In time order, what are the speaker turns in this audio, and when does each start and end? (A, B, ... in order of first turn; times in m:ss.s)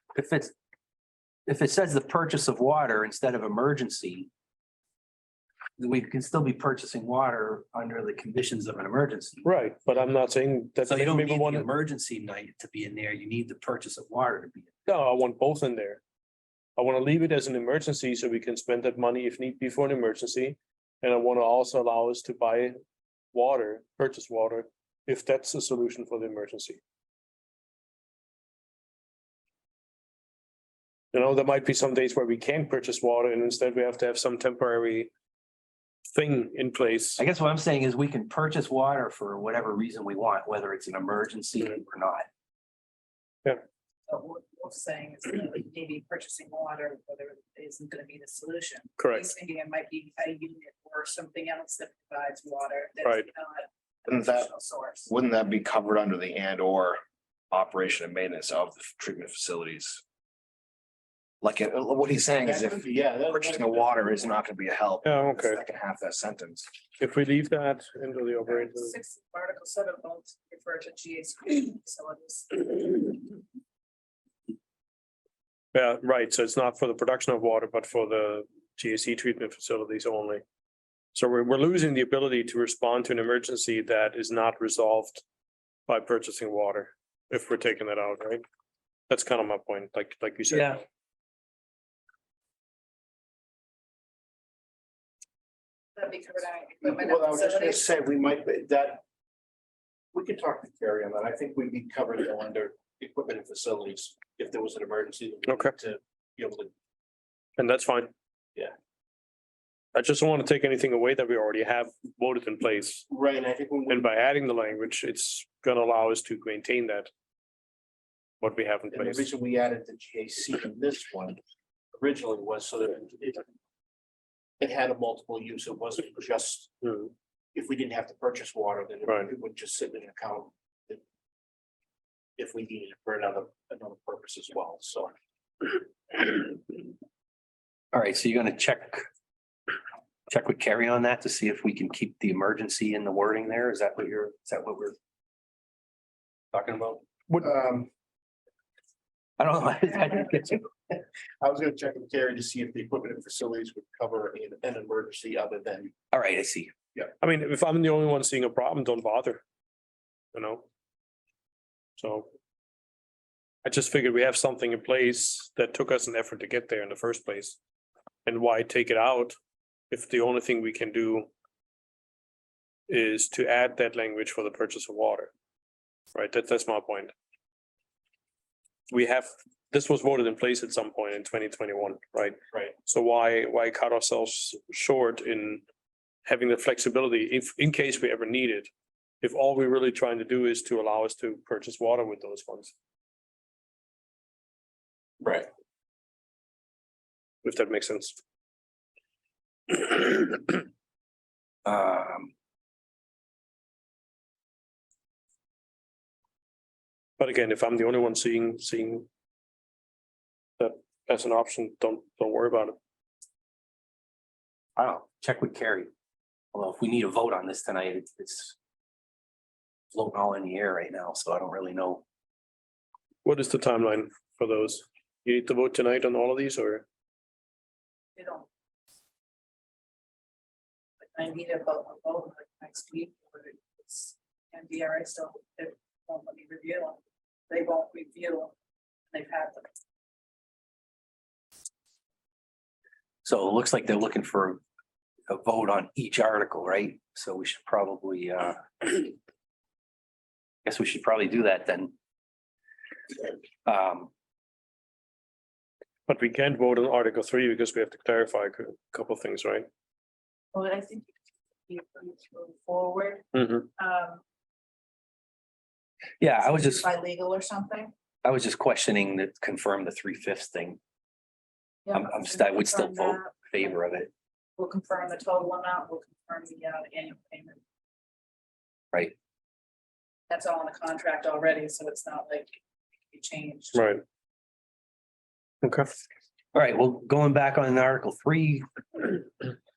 0:00.1-0:00.5 A
0:01.5-0:04.3 A
0:05.8-0:09.4 A
0:09.4-0:11.7 B
0:10.8-0:14.9 A
0:14.9-0:16.0 B
0:16.8-0:22.8 B
0:23.3-0:26.8 B
0:31.1-0:35.1 B
0:36.1-0:37.2 B
0:37.2-0:42.3 A
0:44.1-0:55.1 C
0:49.0-0:49.3 B
0:54.1-0:54.5 D
0:55.1-1:00.0 D
1:01.4-1:06.7 D
1:02.4-1:04.2 E
1:05.0-1:05.6 B
1:07.0-1:08.9 B
1:08.5-1:13.1 C
1:15.7-1:20.4 B
1:21.1-1:25.2 B
1:25.9-1:28.4 B
1:29.1-1:30.8 B
1:30.5-1:30.8 A
1:36.0-1:37.8 C
1:36.8-1:39.0 E
1:40.1-1:46.7 E
1:45.5-1:45.7 B
1:47.6-1:48.1 B
1:49.9-1:53.1 B
1:53.1-1:54.1 E
1:53.9-1:57.1 B
1:58.4-1:59.3 B
1:58.9-2:01.4 E
2:01.9-2:03.4 E
2:04.6-2:06.8 E
2:06.8-2:07.1 B
2:07.5-2:11.0 E
2:12.4-2:15.1 E
2:17.9-2:19.0 A
2:20.3-2:25.0 A
2:26.5-2:27.9 E
2:29.4-2:30.7 A
2:31.4-2:35.9 E
2:36.1-2:36.7 A
2:37.2-2:39.4 B
2:40.3-2:40.6 B
2:42.0-2:42.3 B
2:43.6-2:47.6 B
2:48.2-2:49.3 B
2:49.9-2:51.3 B
2:52.9-2:55.3 B
2:56.1-2:57.1 B
2:58.9-3:05.6 B
3:06.2-3:08.7 B
3:09.2-3:12.7 B
3:15.2-3:15.5 E
3:17.4-3:18.2 B
3:19.7-3:20.6 B
3:21.6-3:22.3 A
3:27.2-3:29.1 B
3:30.6-3:32.8 B
3:34.8-3:35.9 A
3:36.5-3:38.6 A
3:39.9-3:42.0 A
3:43.2-3:46.8 B
3:48.2-3:48.5 C
3:51.0-3:58.5 C
3:59.1-3:59.7 C
4:03.2-4:04.6 A
4:05.3-4:09.1 A
4:10.6-4:11.9 A
4:13.6-4:14.1 A
4:16.1-4:19.7 B
4:20.5-4:21.1 C
4:21.7-4:23.2 C
4:23.3-4:23.7 B
4:23.8-4:24.2 C
4:26.2-4:26.9 A
4:26.4-4:27.9 C
4:28.2-4:30.8 A
4:31.9-4:33.5 C
4:31.9-4:34.1 A
4:34.6-4:37.6 C
4:40.3-4:42.6 C
4:43.1-4:43.9 C
4:43.7-4:44.0 B
4:45.6-4:45.9 B
4:46.5-4:49.2 A